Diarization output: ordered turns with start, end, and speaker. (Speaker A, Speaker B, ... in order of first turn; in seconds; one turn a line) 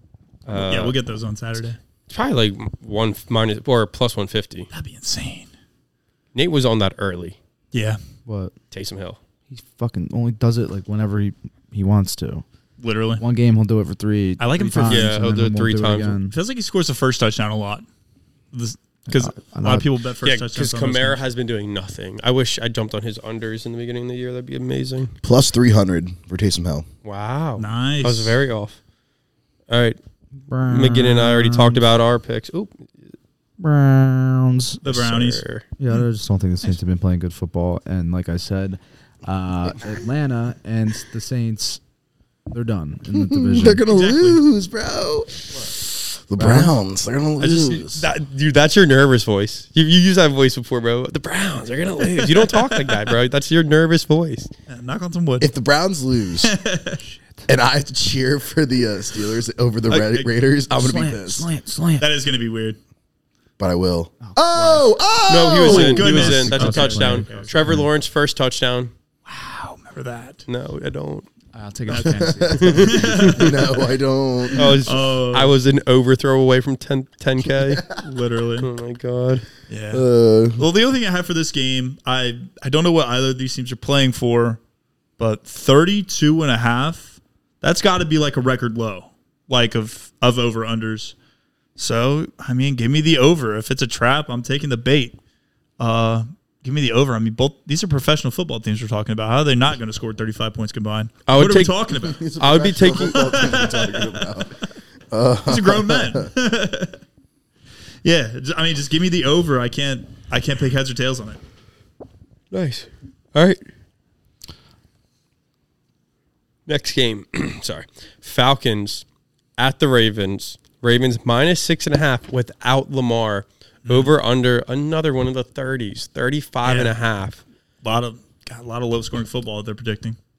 Speaker A: 0.5-1.0
Speaker B: 0.5-1.8
Speaker A: 2.1-4.7
Speaker B: 4.7-5.5
Speaker A: 6.3-7.4
Speaker B: 7.7-8.0
Speaker C: 8.3-8.5
Speaker A: 8.7-9.2
Speaker C: 9.5-12.4
Speaker B: 12.8-13.2
Speaker C: 13.2-16.4
Speaker B: 14.4-15.1
Speaker A: 14.8-16.2
Speaker B: 16.3-17.9
Speaker B: 18.5-21.2
Speaker C: 19.1-19.9
Speaker A: 20.2-25.1
Speaker D: 25.2-26.9
Speaker A: 27.0-28.8
Speaker B: 27.6-28.4
Speaker A: 29.7-30.0
Speaker C: 30.4-31.8
Speaker A: 30.7-32.8
Speaker C: 33.6-34.8
Speaker B: 34.8-35.4
Speaker A: 34.9-35.6
Speaker C: 35.8-41.8
Speaker C: 42.5-43.8
Speaker D: 43.1-48.1
Speaker B: 43.9-44.4
Speaker C: 46.4-46.7
Speaker A: 47.4-54.5
Speaker B: 52.2-52.9
Speaker B: 54.7-55.5
Speaker D: 55.4-56.5
Speaker B: 56.4-57.0
Speaker C: 57.1-57.5
Speaker D: 57.5-61.5
Speaker B: 59.9-60.3
Speaker C: 60.7-62.1
Speaker B: 62.0-62.8
Speaker D: 63.6-66.1
Speaker C: 64.2-64.9
Speaker A: 65.3-68.9
Speaker B: 65.5-67.6
Speaker C: 65.7-67.9
Speaker B: 69.3-70.5
Speaker A: 70.5-71.3
Speaker C: 71.5-73.5
Speaker B: 71.9-73.9
Speaker D: 72.0-74.8
Speaker A: 72.6-73.4
Speaker A: 74.5-77.8
Speaker B: 74.6-75.5
Speaker D: 77.5-78.0
Speaker B: 78.0-78.7
Speaker A: 78.6-79.5
Speaker B: 79.7-84.6
Speaker D: 79.9-80.7
Speaker B: 85.2-91.2
Speaker B: 91.8-95.2
Speaker B: 95.8-102.2
Speaker A: 101.3-101.8
Speaker D: 102.0-106.3
Speaker A: 102.4-103.5
Speaker B: 102.9-104.4
Speaker B: 105.5-107.0
Speaker B: 108.0-111.4
Speaker A: 112.5-113.6
Speaker A: 116.7-119.1
Speaker A: 119.6-127.4
Speaker B: 123.8-124.1
Speaker B: 126.6-127.0
Speaker B: 127.8-130.2